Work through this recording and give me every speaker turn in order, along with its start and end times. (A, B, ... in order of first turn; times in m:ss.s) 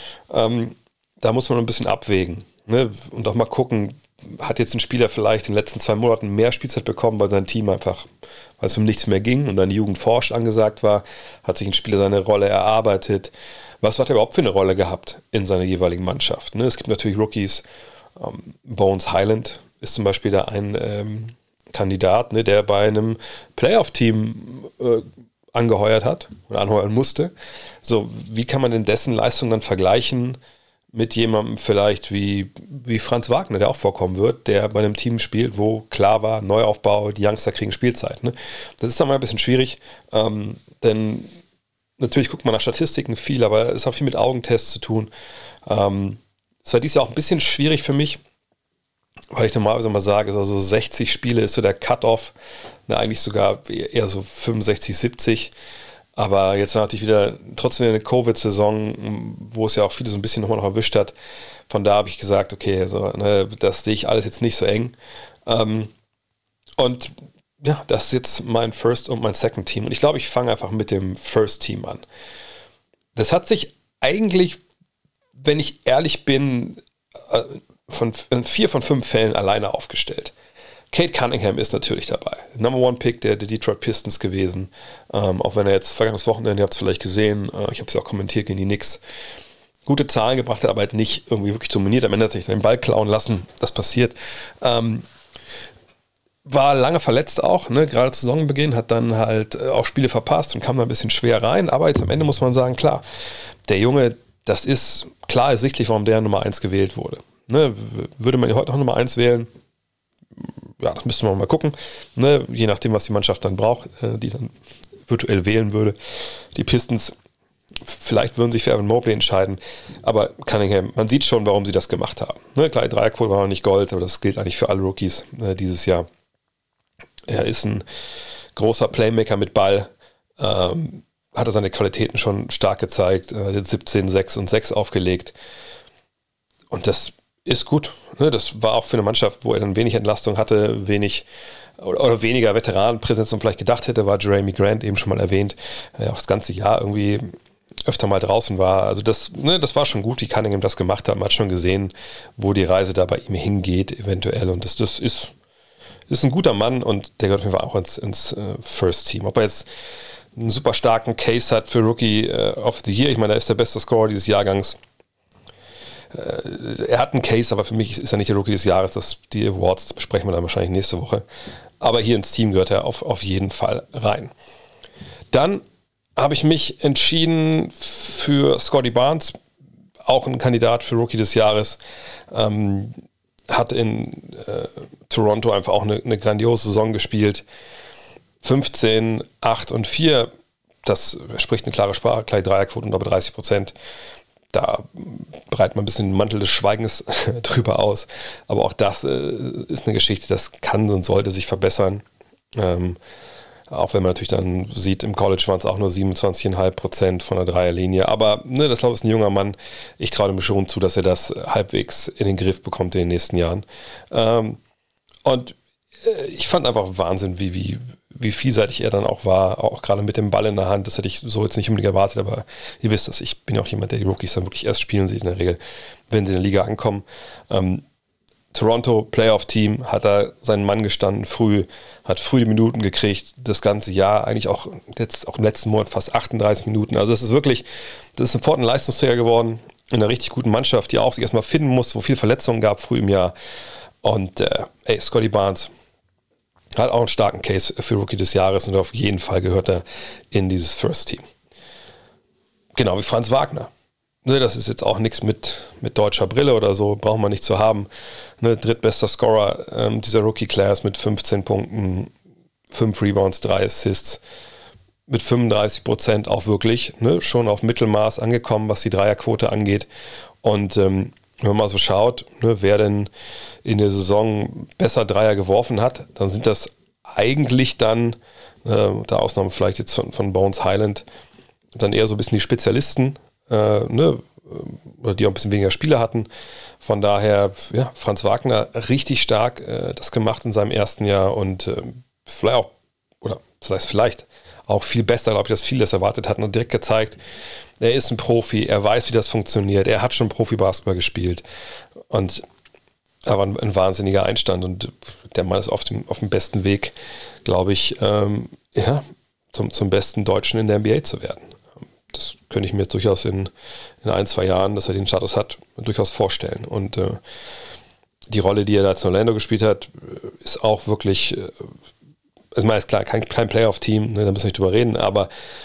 0:00.3-0:08.1 A
0:08.6-0:17.6 A
0:18.2-0:27.3 A
0:27.8-0:30.4 A
0:30.9-0:41.3 A
0:42.0-0:45.1 A
0:45.7-0:48.2 A
0:49.3-0:52.3 A
0:52.9-0:55.5 A
0:56.2-1:01.1 A
1:01.7-1:04.9 A
1:05.4-1:05.9 A
1:06.8-1:12.0 A
1:13.1-1:14.6 A
1:15.4-1:20.3 A
1:20.9-1:29.0 A
1:29.8-1:35.0 A
1:36.4-1:43.0 A
1:43.6-1:49.5 A
1:50.8-1:54.5 A
1:55.1-1:56.0 A
1:56.5-1:57.1 A
1:57.8-2:06.1 A
2:07.3-2:07.8 A
2:08.6-2:15.3 A
2:16.7-2:21.2 A
2:21.8-2:27.3 A
2:27.8-2:35.3 A
2:36.1-2:39.6 A
2:40.4-2:44.8 A
2:46.1-2:51.2 A
2:51.8-2:54.3 A
2:55.3-2:55.6 A
2:56.2-2:59.4 A
3:00.0-3:01.8 A
3:02.3-3:02.9 A
3:03.5-3:07.4 A
3:08.4-3:10.3 A
3:10.8-3:13.7 A
3:14.5-3:22.0 A
3:22.6-3:23.0 A
3:23.7-3:34.6 A
3:35.2-3:47.8 A
3:48.5-4:03.3 A
4:04.0-4:05.7 A
4:06.7-4:11.2 A
4:12.8-4:13.7 A
4:14.2-4:17.9 A
4:18.4-4:22.1 A
4:22.7-4:24.2 A
4:25.1-4:29.9 A
4:30.4-4:33.1 A
4:33.6-4:41.0 A
4:41.7-4:46.3 A
4:46.8-4:52.7 A
4:53.2-4:57.2 A
4:57.8-5:01.4 A
5:02.1-5:02.4 A
5:03.2-5:06.9 A
5:07.4-5:11.6 A
5:12.1-5:13.5 A
5:14.0-5:17.2 A
5:18.3-5:21.7 A
5:22.5-5:25.3 A